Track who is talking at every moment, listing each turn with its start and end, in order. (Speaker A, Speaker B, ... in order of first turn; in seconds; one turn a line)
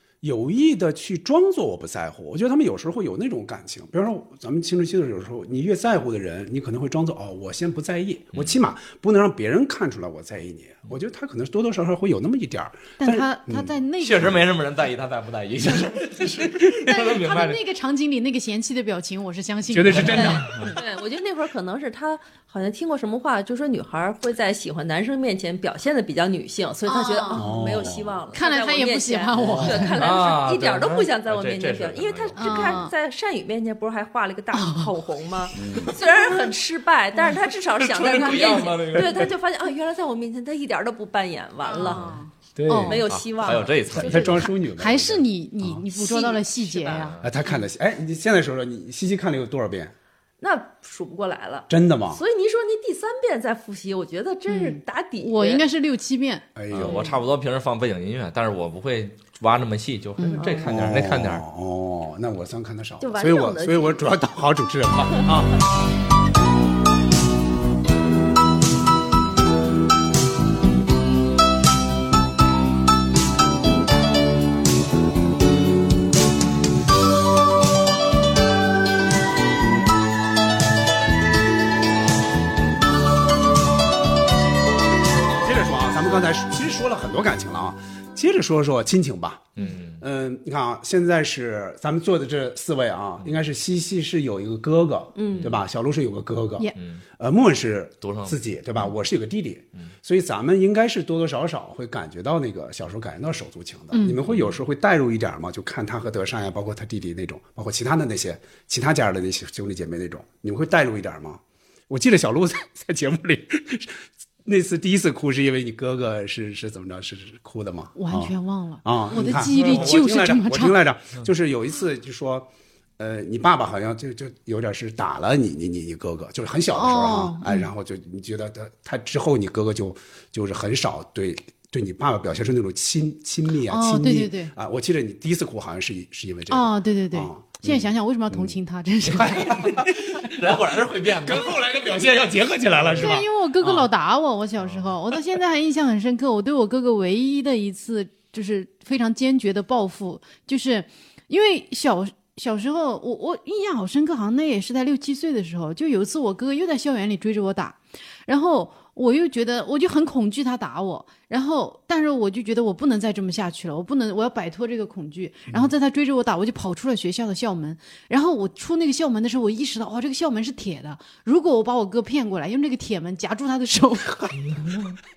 Speaker A: 0.2-14.4
Speaker B: 13.0-14.4
Speaker C: 14.0-17.6
Speaker B: 16.8-20.8
Speaker A: 19.7-20.7
Speaker C: 19.9-20.7
Speaker D: 20.2-42.0
Speaker B: 26.9-27.6
Speaker A: 27.4-28.2
Speaker B: 28.3-30.0
Speaker A: 29.4-29.9
Speaker C: 30.0-32.8
Speaker B: 32.4-32.9
Speaker B: 34.5-34.9
Speaker A: 35.6-36.0
Speaker B: 36.0-36.4
Speaker C: 37.7-39.3
Speaker B: 41.6-43.0
Speaker C: 41.8-42.2
Speaker A: 42.6-43.1
Speaker D: 42.9-44.3
Speaker C: 43.1-44.4
Speaker A: 43.9-45.8
Speaker B: 44.1-47.2
Speaker D: 45.9-47.1
Speaker C: 46.9-47.3
Speaker A: 47.2-49.9
Speaker D: 50.4-55.6
Speaker A: 51.7-52.2
Speaker B: 54.5-56.5
Speaker A: 56.5-57.0
Speaker C: 56.7-61.4
Speaker D: 56.8-57.1
Speaker D: 60.4-60.7
Speaker A: 60.6-65.6
Speaker D: 63.0-64.0
Speaker A: 85.4-138.6
Speaker C: 89.6-90.0
Speaker D: 95.2-95.5
Speaker C: 96.8-97.0
Speaker C: 98.0-98.4
Speaker B: 103.9-104.2
Speaker C: 104.2-104.6
Speaker B: 118.0-120.8
Speaker C: 119.3-119.9
Speaker B: 126.7-127.7
Speaker B: 133.7-134.5
Speaker B: 136.5-139.7
Speaker A: 139.1-140.4
Speaker C: 139.2-141.7
Speaker A: 141.1-143.9
Speaker C: 142.8-143.2
Speaker B: 143.0-174.3
Speaker C: 174.5-174.8